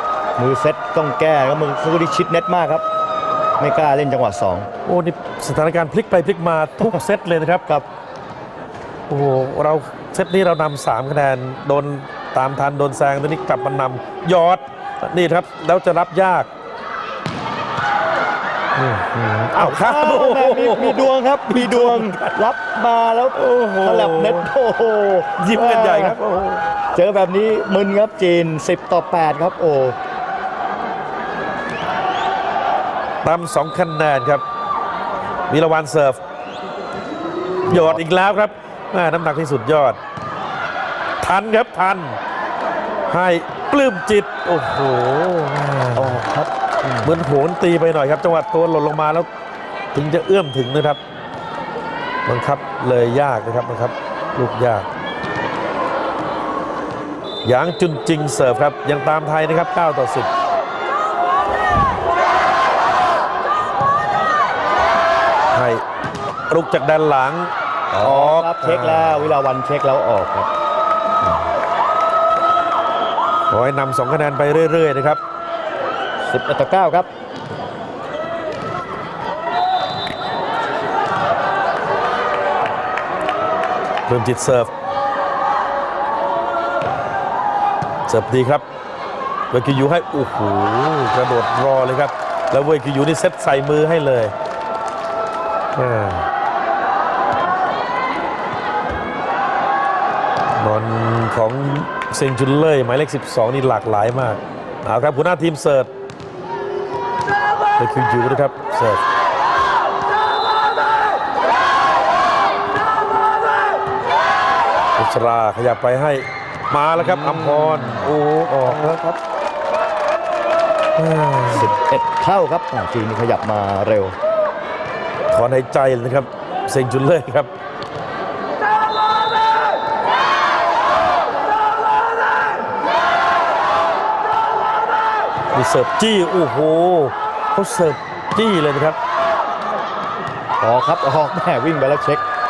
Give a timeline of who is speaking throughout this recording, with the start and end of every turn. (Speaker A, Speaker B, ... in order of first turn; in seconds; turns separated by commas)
Speaker A: 0.4-2.9, Speaker A: 3.6-4.7, Speaker B: 4.8-7.7, Speaker B: 9.1-16.5, Speaker B: 18.8-22.4, Speaker A: 19.5-26.2, Speaker B: 23.4-24.5, Speaker B: 25.4-26.6, Speaker A: 26.9-29.9, Speaker B: 33.2-34.4, Speaker B: 35.5-36.2, Speaker A: 37.7-38.0, Speaker B: 37.7-40.0, Speaker B: 41.2-42.2, Speaker B: 43.1-46.2, Speaker A: 45.9-47.2, Speaker B: 47.0-49.3, Speaker B: 49.9-51.0, Speaker B: 52.3-54.9, Speaker B: 57.4-60.3, Speaker B: 65.5-65.8, Speaker B: 66.5-69.3, Speaker A: 67.9-70.5, Speaker B: 73.5-75.2, Speaker A: 76.3-77.1, Speaker B: 84.1-84.7, Speaker B: 88.1-88.6, Speaker B: 89.5-94.3, Speaker B: 95.8-96.3, Speaker B: 100.6-105.9, Speaker B: 107.8-109.0, Speaker B: 115.0-119.0, Speaker A: 117.0-119.2, Speaker B: 121.0-121.7, Speaker A: 121.5-124.2, Speaker B: 125.3-127.5, Speaker B: 135.5-139.0, Speaker A: 140.6-142.2